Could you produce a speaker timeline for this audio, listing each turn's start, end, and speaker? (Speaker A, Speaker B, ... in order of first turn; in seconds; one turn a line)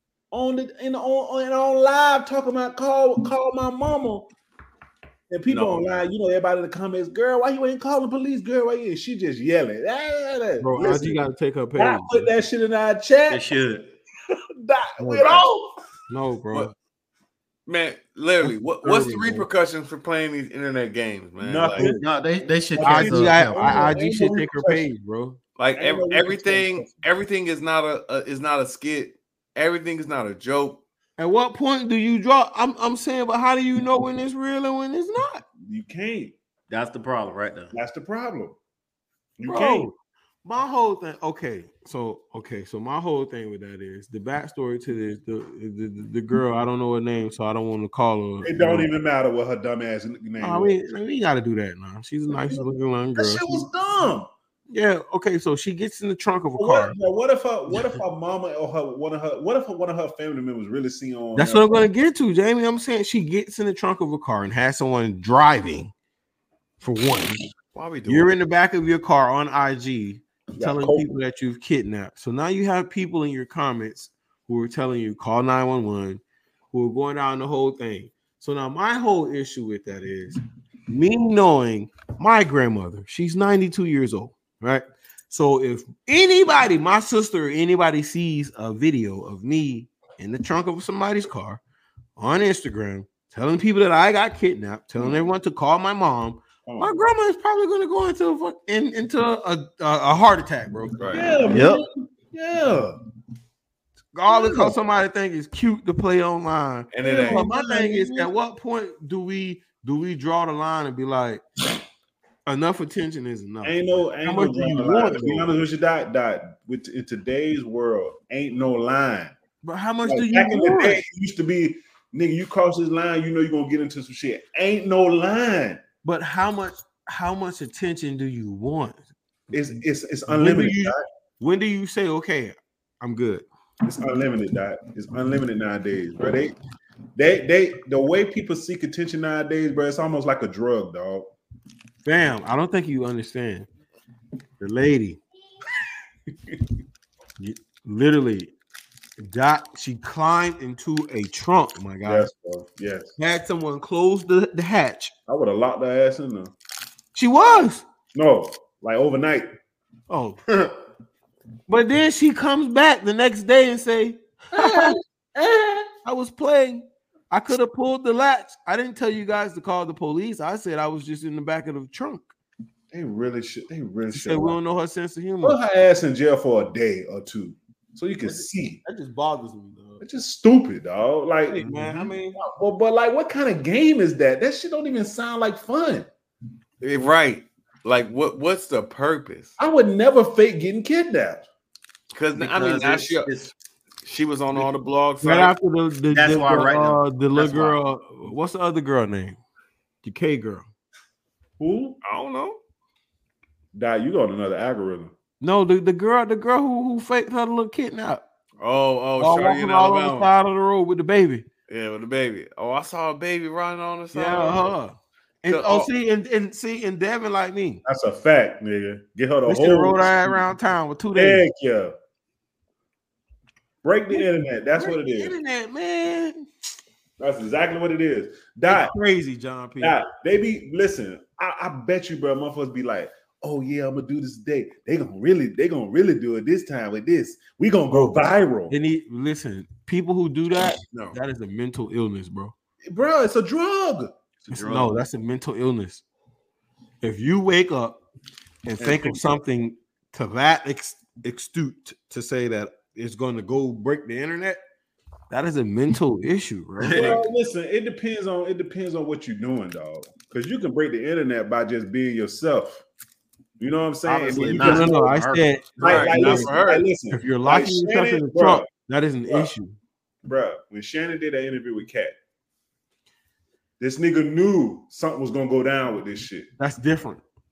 Speaker A: 0.3-4.3
Speaker A: 5.3-11.2
Speaker B: 5.5-6.0
Speaker C: 10.6-12.3
Speaker A: 11.8-13.5
Speaker D: 13.3-13.9
Speaker A: 14.6-15.7
Speaker C: 15.0-15.3
Speaker C: 16.1-16.7
Speaker B: 17.7-21.9
Speaker C: 18.4-19.5
Speaker A: 21.4-22.1
Speaker D: 21.8-23.9
Speaker A: 22.7-24.9
Speaker C: 22.8-25.4
Speaker B: 25.6-30.8
Speaker A: 25.7-27.0
Speaker C: 31.2-35.4
Speaker A: 35.6-36.3
Speaker D: 36.7-37.7
Speaker A: 37.7-38.6
Speaker A: 39.4-39.9
Speaker C: 39.5-48.9
Speaker A: 48.4-50.8
Speaker C: 50.4-53.6
Speaker A: 52.3-54.3
Speaker C: 54.7-57.0
Speaker A: 56.6-61.9
Speaker C: 61.4-65.9
Speaker C: 66.8-67.4
Speaker B: 67.7-68.3
Speaker C: 68.1-91.6
Speaker A: 70.5-71.1
Speaker C: 92.2-101.4
Speaker A: 95.0-95.3
Speaker A: 96.7-96.9
Speaker B: 101.0-101.3
Speaker A: 101.1-103.0
Speaker D: 101.5-101.8
Speaker C: 104.1-111.4
Speaker A: 104.3-104.8
Speaker B: 106.9-107.5
Speaker A: 107.0-108.3
Speaker C: 112.5-115.5
Speaker A: 113.6-119.3
Speaker C: 119.6-121.0
Speaker A: 120.0-125.8
Speaker C: 126.0-129.0
Speaker A: 129.5-131.0
Speaker C: 130.3-133.4
Speaker A: 133.8-136.6
Speaker A: 137.2-141.3
Speaker C: 142.0-143.7
Speaker C: 144.6-145.2
Speaker C: 147.4-148.5
Speaker C: 149.2-152.3
Speaker A: 152.0-153.1
Speaker C: 153.2-155.1
Speaker A: 155.3-156.5
Speaker C: 157.1-157.8
Speaker A: 158.1-159.5
Speaker C: 160.1-160.4
Speaker D: 160.5-160.8
Speaker C: 161.7-165.0
Speaker A: 164.5-165.9
Speaker C: 166.0-172.3
Speaker A: 172.9-174.6
Speaker C: 174.1-175.6
Speaker A: 175.4-178.8
Speaker C: 178.2-180.0
Speaker A: 180.0-186.1
Speaker C: 181.5-182.4
Speaker B: 186.8-189.5
Speaker A: 189.6-191.4
Speaker B: 192.1-193.3
Speaker D: 192.3-193.5
Speaker B: 194.0-195.5
Speaker C: 195.2-199.4
Speaker D: 196.1-197.8
Speaker C: 200.0-200.7
Speaker A: 201.6-202.0
Speaker B: 202.0-202.6
Speaker A: 203.7-205.1
Speaker C: 205.4-208.2
Speaker B: 208.6-210.3
Speaker C: 209.2-211.5
Speaker B: 211.7-214.7
Speaker C: 214.1-217.8
Speaker B: 215.5-215.9
Speaker A: 217.8-220.4
Speaker C: 219.4-221.4
Speaker A: 221.1-221.9
Speaker A: 223.8-225.3
Speaker C: 224.1-226.4
Speaker A: 227.2-228.9
Speaker C: 228.7-230.0
Speaker A: 229.8-238.7
Speaker C: 237.9-242.5
Speaker B: 240.9-241.2
Speaker A: 242.8-244.1
Speaker C: 244.5-246.0
Speaker C: 247.0-248.0
Speaker C: 248.7-254.6
Speaker A: 248.8-249.4
Speaker C: 255.3-257.2
Speaker A: 256.8-262.8
Speaker D: 256.9-257.1
Speaker A: 263.6-265.0
Speaker D: 264.0-265.5
Speaker C: 264.4-266.5
Speaker A: 265.8-268.7
Speaker B: 265.8-266.8
Speaker C: 267.1-269.8
Speaker A: 270.2-272.1
Speaker A: 273.8-276.5
Speaker C: 276.6-277.2